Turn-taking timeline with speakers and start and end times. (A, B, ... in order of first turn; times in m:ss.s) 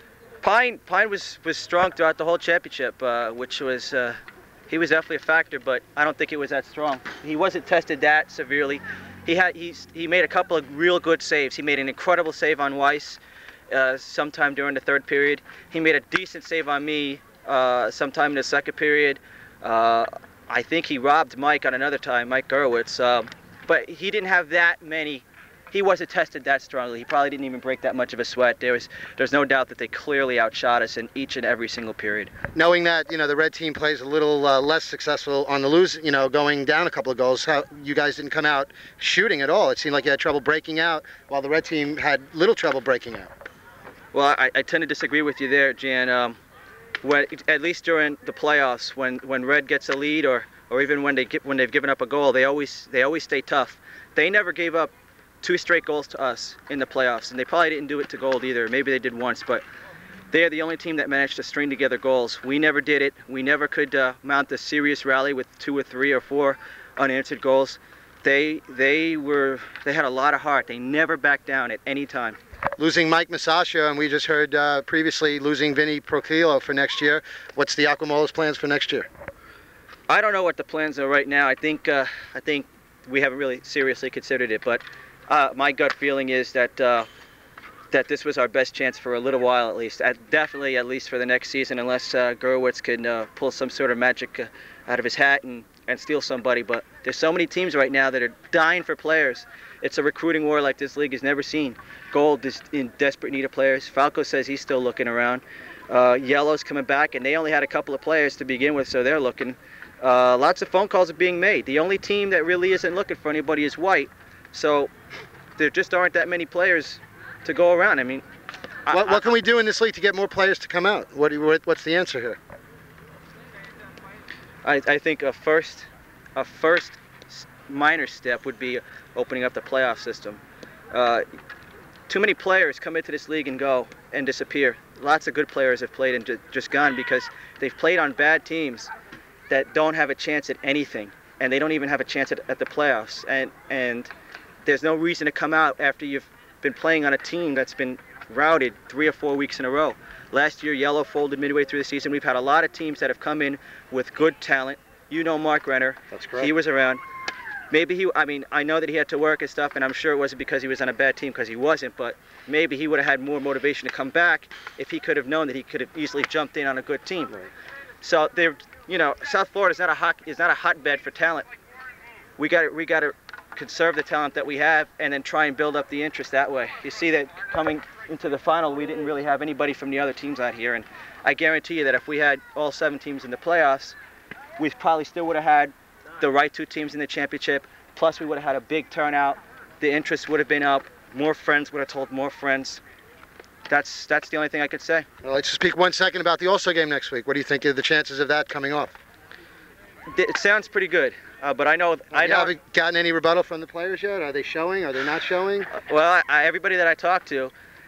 0:00.4-0:32.3 A
0:32.5-0:43.3 B
0:44.1-0:46.4 A
0:47.0-0:59.6 A
1:00.3-1:12.4 A
1:12.8-1:19.1 B
1:20.1-1:27.1 A
1:27.9-1:54.9 A
1:55.6-1:58.2 A
1:58.8-1:59.4 A
1:58.9-2:02.4 B
2:04.6-2:10.4 A
2:10.9-2:11.2 A
2:12.1-2:18.9 A
2:19.5-2:24.1 A
2:24.6-2:37.0 A
2:36.1-2:36.5 B
2:37.7-2:47.4 A
2:48.0-2:51.5 A
2:52.4-3:04.0 A
3:04.6-3:12.8 A
3:13.7-3:15.1 A
3:15.2-3:18.9 B
3:20.1-3:22.5 A
3:22.1-3:25.7 B
3:25.7-3:27.5 A